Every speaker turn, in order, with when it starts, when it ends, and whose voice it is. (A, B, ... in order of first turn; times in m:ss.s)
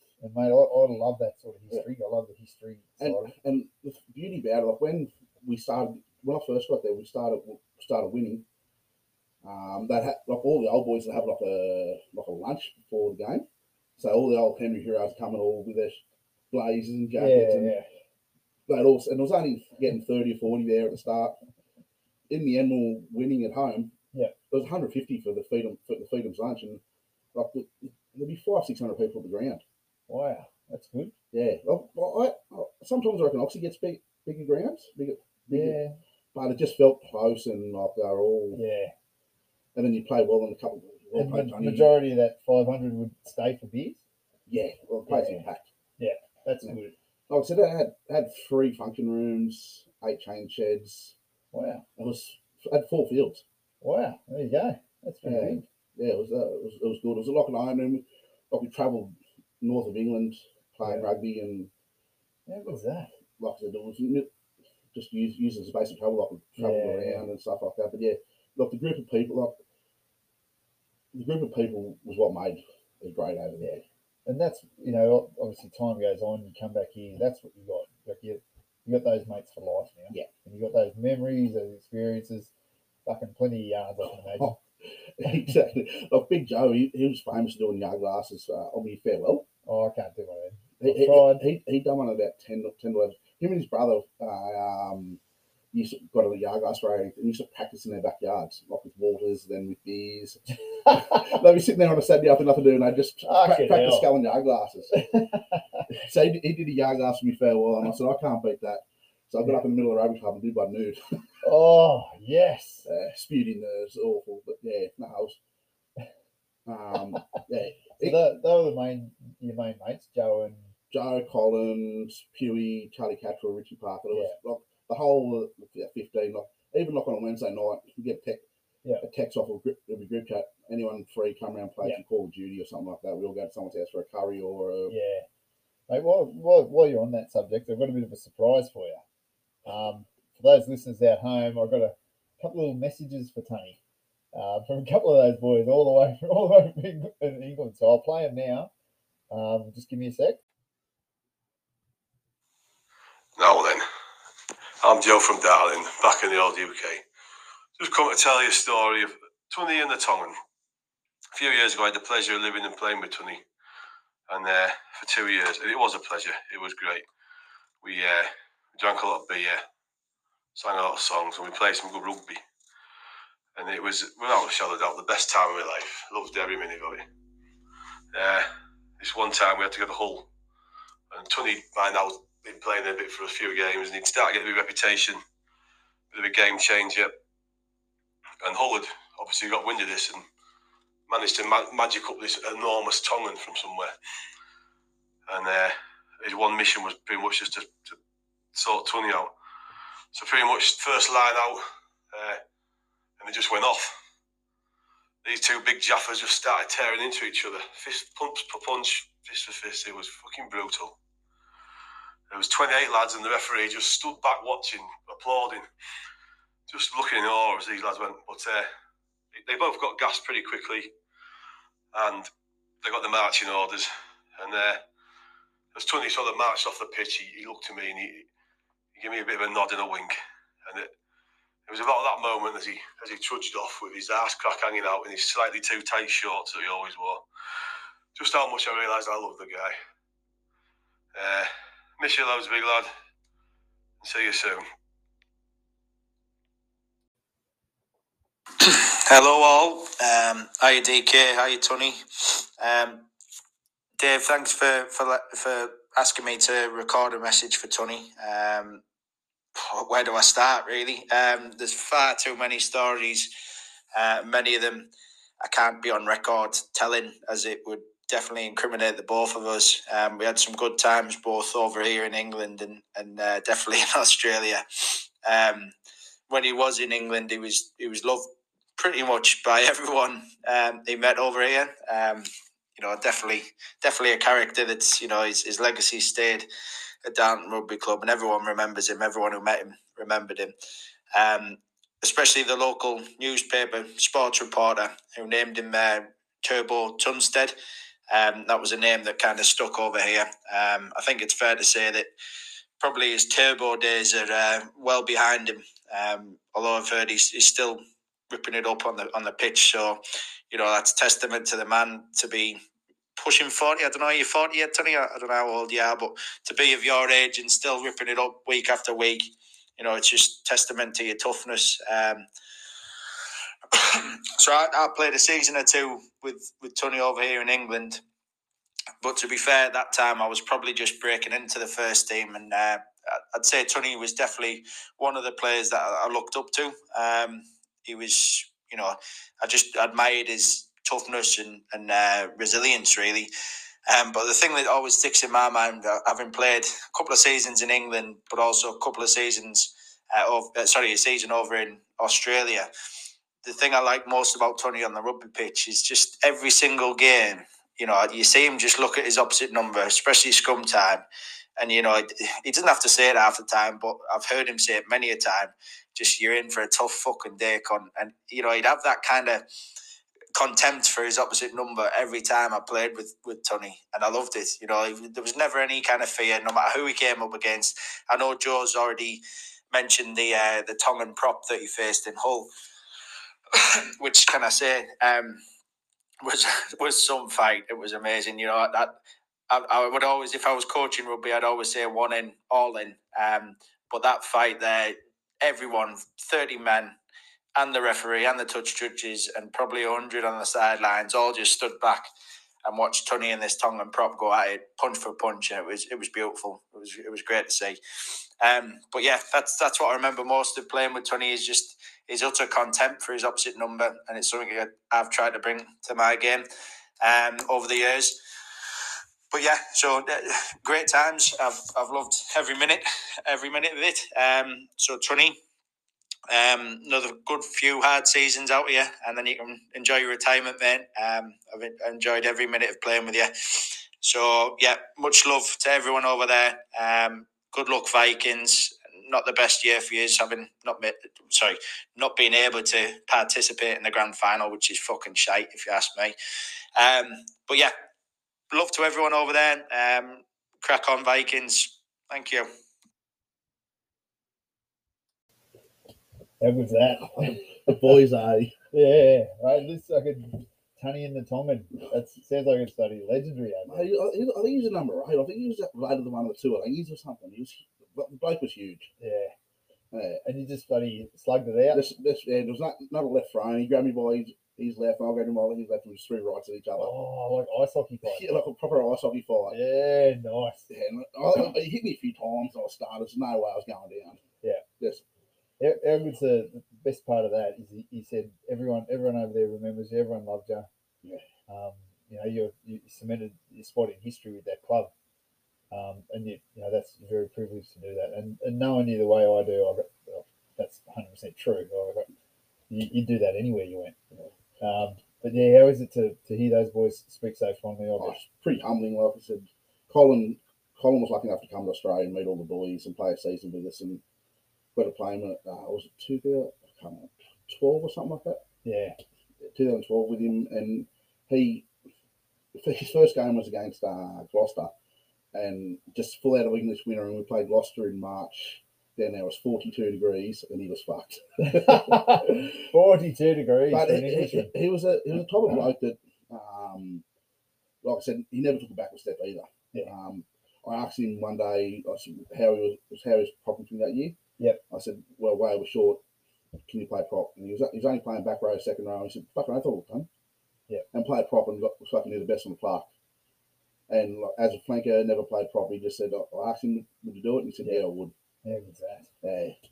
0:00.2-0:03.3 A
0:03.0-0:08.4 B
0:09.4-0:13.4 B
0:14.0-0:16.0 B
0:16.5-0:17.7 B
0:17.2-0:17.9 A
0:18.7-0:21.4 B
0:22.3-0:23.9 B
0:24.5-0:26.8 B
0:27.3-0:29.6 B
0:30.1-0:31.1 A
0:31.3-0:35.8 B
0:35.5-0:36.0 A
0:36.3-0:38.6 B
0:38.5-0:38.9 A
0:39.8-0:41.9 B
0:41.2-0:44.0 A
0:44.5-0:45.7 B
0:45.1-0:45.4 A
0:46.0-0:46.9 A
0:47.3-0:51.2 B
0:51.5-0:51.8 A
0:52.0-0:53.4 B
0:53.8-0:55.6 A
0:55.2-1:01.7 B
1:02.5-1:03.1 A
1:03.4-1:04.3 B
1:04.9-1:09.6 B
1:06.6-1:07.2 A
1:11.1-1:13.8 B
1:13.6-1:22.5 A
1:23.1-1:24.6 A
1:25.2-1:29.5 B
1:29.7-1:31.4 A
1:30.8-1:35.2 B
1:35.7-1:44.9 B
1:40.9-1:41.3 A
1:43.2-1:44.1 A
1:44.9-1:45.8 A
1:45.9-1:51.0 B
1:51.4-1:52.9 A
1:52.8-1:55.4 B
1:56.7-1:58.2 B
1:58.0-2:00.7 A
2:00.9-2:08.4 B
2:09.0-2:14.9 B
2:14.9-2:15.3 A
2:15.9-2:19.0 A
2:19.7-2:23.8 A
2:24.3-2:28.7 A
2:29.3-2:30.4 A
2:33.4-2:33.8 C
2:34.8-2:37.0 C
2:37.8-2:40.4 C
2:41.3-2:43.4 C
2:44.3-2:47.0 C
2:47.8-2:49.6 C
2:50.6-2:52.4 C
2:53.6-2:57.0 C
2:58.1-2:58.5 C
2:59.0-3:00.3 C
3:01.1-3:05.2 C
3:06.1-3:07.1 C
3:08.4-3:10.2 C
3:11.1-3:13.9 C
3:15.3-3:18.0 C
3:18.5-3:19.3 C
3:20.1-3:22.4 C
3:23.2-3:23.9 C
3:25.2-3:31.0 C
3:32.3-3:35.6 C
3:36.7-3:38.7 C
3:39.4-3:40.9 C
3:41.9-3:42.3 C
3:42.8-3:44.8 C
3:45.7-3:48.3 C
3:49.0-3:50.2 C
3:51.7-3:57.2 C
3:58.2-3:59.7 C
4:01.2-4:02.9 C
4:04.0-4:04.6 C
4:08.6-4:13.1 D
4:14.0-4:18.8 D
4:19.6-4:23.3 D
4:23.9-4:35.7 D
4:36.3-4:46.5 D
4:47.0-4:50.5 D
4:51.1-4:57.6 D
4:58.1-5:02.1 D
5:02.8-5:12.6 D
5:13.2-5:22.3 D
5:23.7-5:28.0 D
5:29.0-5:43.3 D
5:43.9-5:52.7 D
5:53.4-6:01.0 D
6:01.6-6:09.4 D
6:10.4-6:22.5 D
6:23.5-6:25.4 D
6:26.2-6:28.9 D
6:29.5-6:37.0 D
6:37.6-6:42.1 D
6:42.6-6:47.8 D
6:48.4-6:56.5 D
6:57.0-6:58.2 D
6:59.3-7:05.4 D
7:06.3-7:26.2 D
7:26.8-7:27.7 D
7:28.5-7:32.5 D
7:36.4-7:37.7 A
7:37.2-7:38.5 B
7:38.7-7:43.9 A
7:43.7-7:48.9 B
7:49.0-7:49.3 A
7:49.9-7:50.2 B
7:50.2-7:51.8 A
7:51.7-7:56.9 B
7:56.8-7:58.3 A
7:58.0-7:59.6 B
7:59.5-8:00.7 A
8:00.7-8:04.2 B
8:05.6-8:10.7 A
8:11.5-8:14.9 A
8:15.7-8:22.1 A
8:22.7-8:24.0 A
8:24.6-8:28.2 A
8:28.0-8:34.0 B
8:34.8-8:38.4 B
8:38.6-8:39.0 A
8:39.5-8:41.7 B
8:42.5-8:44.7 B
8:45.3-8:52.5 B
8:51.4-8:54.5 A
8:53.7-8:57.0 B
8:57.8-9:04.2 B
9:04.7-9:06.0 B
9:06.7-9:10.1 B
9:10.9-9:12.9 B
9:13.9-9:18.1 B
9:18.4-9:19.1 A
9:19.2-9:19.6 B